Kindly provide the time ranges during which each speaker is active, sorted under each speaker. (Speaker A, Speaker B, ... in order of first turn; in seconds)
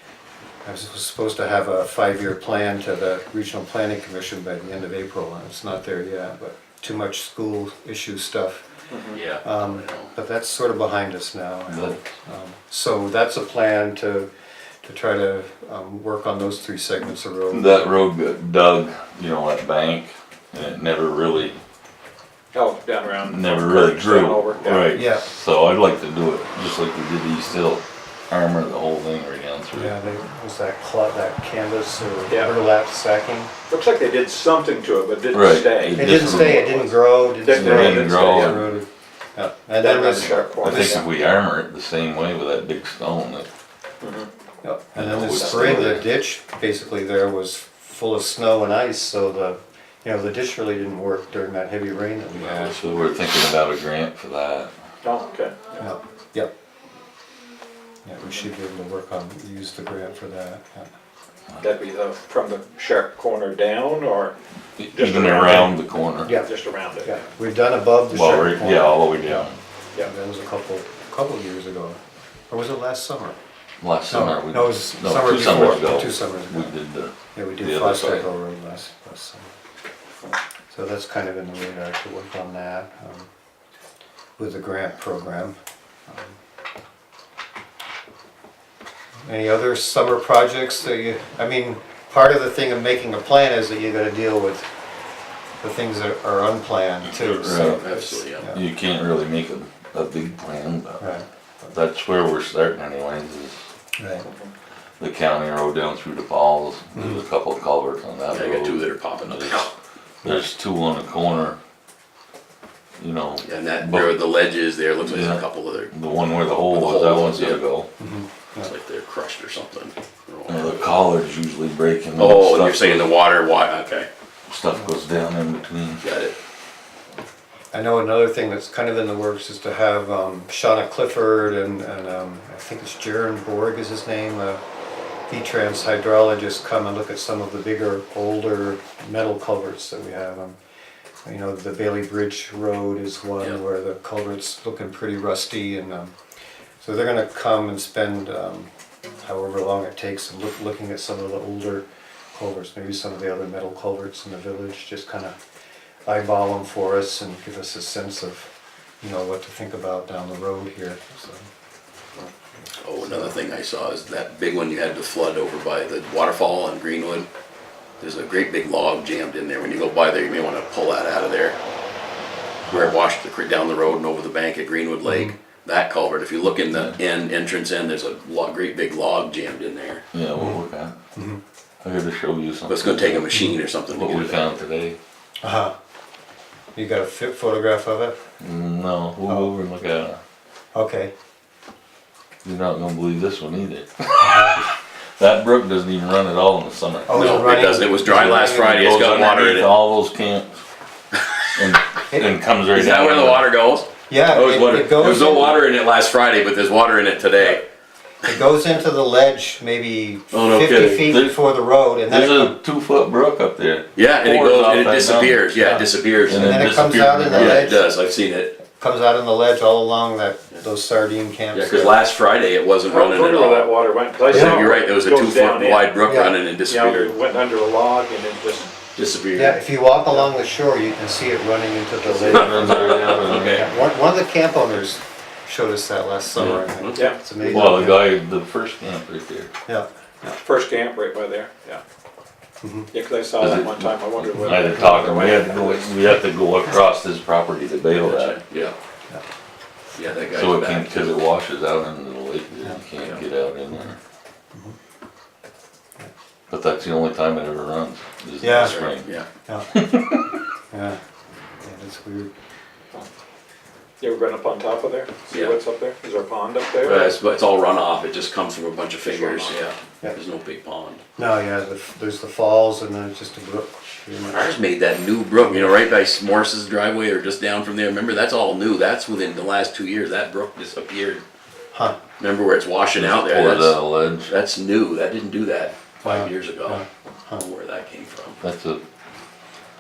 Speaker A: 0.6-8.6, 9.4-14.3, 14.8-17.9, 24.9-25.2, 29.7-33.5, 35.9-41.0, 44.6-52.8, 55.8-56.5, 58.0-60.9, 65.4-65.7, 66.2-66.5, 67.0-69.4, 70.0-73.4, 74.1-76.7, 77.3-79.5, 80.7-83.3, 84.4-86.3, 89.2-94.7, 95.6-98.6, 101.0-101.2, 104.0-104.3, 106.9-107.2, 118.0-118.7, 127.7-134.6, 135.3-140.6, 141.2-146.1, 146.8-148.7, 149.2-155.4, 156.1-161.4, 163.0-163.4, 172.7-172.9, 175.1-175.3, 181.1-181.4, 183.3-183.6, 185.4-185.7, 186.7-188.2, 190.7-191.1, 194.2-194.6, 197.1-198.8, 204.1-205.6, 208.2-212.6, 215.6-217.8, 218.7-222.0, 224.3-224.7, 226.0-226.4, 229.3-238.1, 239.7-240.4, 242.6-242.9, 244.4-245.1, 258.4-258.9, 259.4-259.8, 260.7-261.0, 261.6-262.3, 271.2-274.5, 275.5-275.8, 281.7-282.0, 286.0-287.5
Speaker B: 8.9-9.2, 22.5-24.9, 33.7-36.9, 37.4-38.6, 39.8-41.0, 44.0-44.3, 45.4-45.9, 55.0-55.8, 61.6-64.3, 64.9-65.7, 66.4-67.2, 222.9-226.0, 226.7-228.7, 240.3-241.8, 242.9-245.9, 264.0-267.1, 269.1-269.6
Speaker C: 9.1-10.1, 52.3-53.3, 97.2-98.5, 108.3-109.7, 113.4-115.9, 116.7-117.6, 118.6-120.8, 122.2-124.1, 126.0-126.4, 162.8-167.3, 168.0-171.6, 172.7-180.0, 182.7-184.4, 197.1-199.7, 202.7-207.7, 210.3-211.1, 213.9-216.7, 217.3-218.6, 221.5-223.7, 224.2-227.1, 228.9-229.6, 232.2-233.6, 236.4-237.1, 248.0-248.7, 249.9-251.2, 258.6-259.3, 265.3-265.6, 266.8-271.0, 274.3-281.2, 282.2-286.8, 287.4-288.4
Speaker D: 11.7-12.0, 17.5-21.6, 23.2-29.9, 35.3-36.7, 37.5-38.7, 40.6-43.5, 44.9-46.0, 52.7-54.7, 64.8-66.3, 68.1-69.6, 73.8-78.3, 97.3-97.9, 98.4-101.1, 101.7-103.6, 105.0-109.7, 110.2-111.6, 113.0-114.2, 115.0-117.9, 120.5-123.1, 124.5-126.0, 180.1-180.9, 181.8-183.3, 183.9-185.0, 188.4-190.2, 192.4-197.5, 198.1-200.5, 201.5-203.4, 211.0-211.4, 212.1-215.4, 216.3-217.8, 232.1-233.8, 236.4-236.6, 237.4-239.5, 243.4-248.4, 250.3-254.0, 256.5-259.1, 259.7-260.4, 282.9-284.3, 288.4-288.8